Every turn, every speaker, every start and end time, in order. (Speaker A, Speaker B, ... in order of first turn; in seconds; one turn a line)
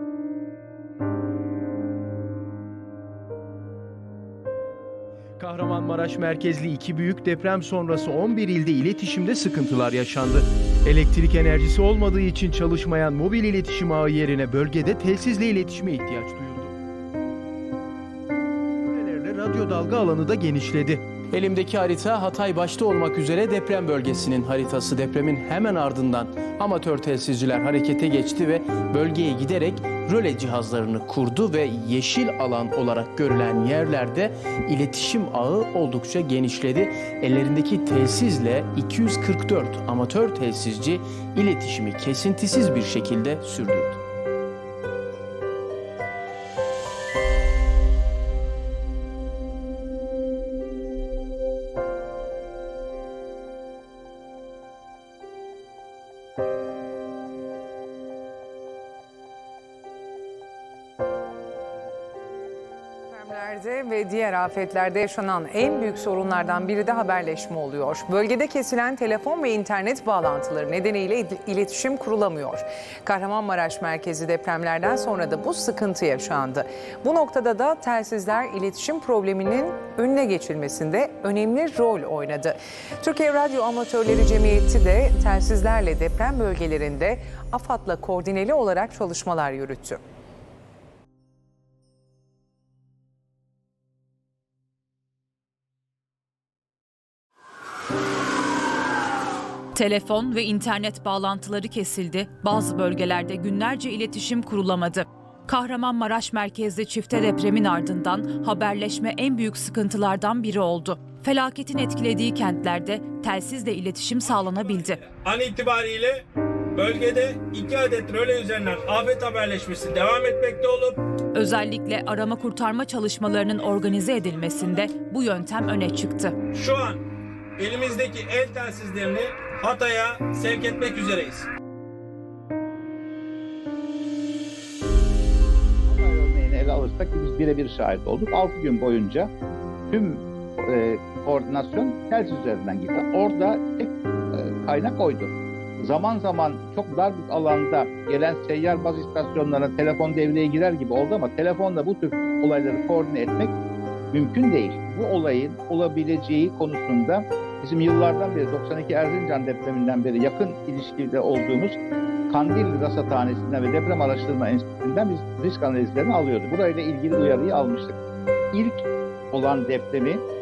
Speaker A: 5.4-16.7
Speaker A: 18.8-44.0
Speaker B: 63.1-90.0
Speaker C: 99.7-115.0
Speaker D: 114.5-116.2
Speaker D: 116.8-121.0
Speaker C: 121.3-126.3
Speaker D: 126.5-127.0
Speaker D: 127.6-131.5
Speaker E: 135.9-139.3
Speaker E: 139.9-153.6
Speaker E: 154.1-161.8
Speaker E: 162.3-168.0
Speaker E: 168.5-170.2